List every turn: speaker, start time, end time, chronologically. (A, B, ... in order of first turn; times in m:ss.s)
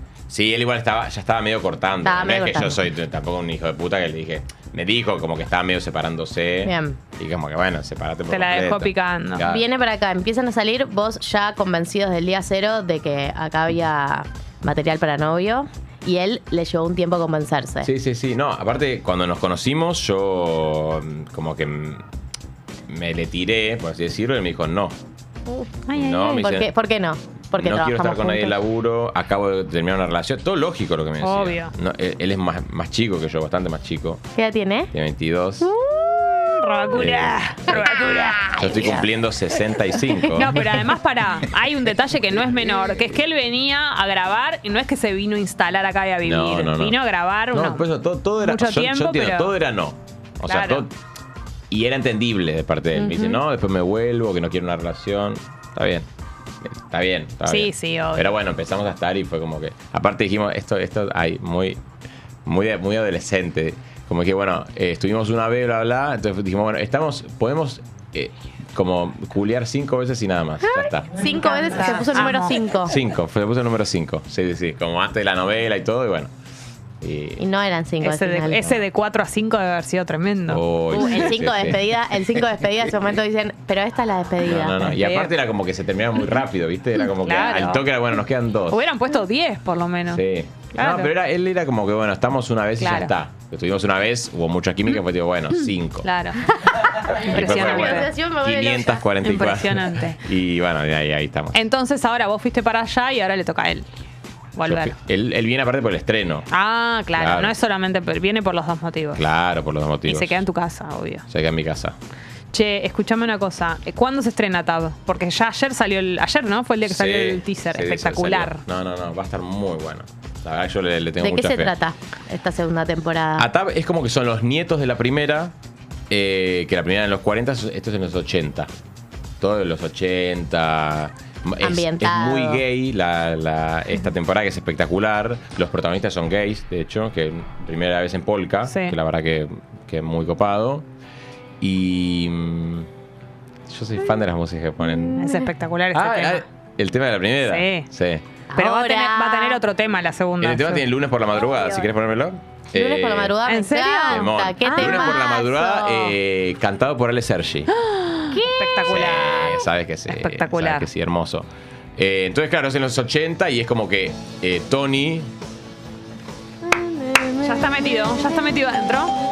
0:00.3-0:09.6 A
0:02.0-0:02.8 B
0:06.6-0:07.0 B
0:08.3-0:09.4 C
0:09.4-0:17.9 B
0:17.8-0:22.0 A
0:22.9-0:24.9 A
0:25.5-0:28.6 B
0:25.9-0:26.5 C
0:25.9-0:26.7 A
0:27.5-0:34.2 A
0:31.2-0:31.7 C
0:34.4-0:34.9 B
0:34.9-0:35.7 A
0:35.6-0:38.5 C
0:36.9-0:40.8 A
0:38.1-0:39.0 B
0:40.3-0:47.8 C
0:42.6-0:43.0 A
0:46.2-0:47.0 A
0:47.5-0:50.9 A
0:48.4-0:49.5 C
0:50.4-0:50.8 C
0:51.7-0:56.1 A
0:53.0-0:53.4 B
0:56.6-1:01.8 A
0:57.4-0:58.3 C
1:02.4-1:11.2 A
1:11.0-1:13.0 B
1:11.2-1:12.6 C
1:12.9-1:16.3 A
1:17.0-1:17.4 A
1:17.4-1:18.8 B
1:18.0-1:21.2 C
1:20.5-1:21.8 A
1:20.9-1:24.8 B
1:24.4-1:28.8 A
1:24.8-1:25.3 C
1:27.2-1:27.9 C
1:28.7-1:30.2 C
1:30.1-1:36.1 A
1:30.7-1:31.1 C
1:32.8-1:33.1 C
1:36.0-1:36.5 C
1:37.1-1:39.1 B
1:37.1-1:41.6 A
1:37.1-1:38.1 C
1:39.2-1:40.2 C
1:41.5-1:43.8 C
1:44.6-1:45.0 C
1:44.6-1:46.5 A
1:46.5-1:49.2 C
1:47.1-1:47.5 A
1:49.2-1:50.4 A
1:50.0-1:51.2 C
1:51.3-1:51.9 A
1:52.5-1:58.6 C
1:56.8-2:01.7 A
2:01.2-2:03.5 B
2:03.4-2:05.5 A
2:06.1-2:08.7 A
2:09.4-2:20.8 A
2:11.6-2:12.6 B
2:18.6-2:19.0 C
2:21.6-2:22.9 A
2:23.7-2:25.2 A
2:24.8-2:25.5 B
2:25.2-2:26.4 C
2:25.9-2:28.2 A
2:27.4-2:27.9 C
2:28.5-2:29.6 B
2:28.6-2:30.8 C
2:30.4-2:33.4 A
2:31.4-2:31.8 B
2:32.7-2:36.1 B
2:33.4-2:35.2 C
2:34.0-2:37.7 A
2:37.7-2:40.9 C
2:38.3-2:38.9 B
2:38.9-2:45.3 A
2:46.6-2:47.9 B
2:47.4-2:49.1 C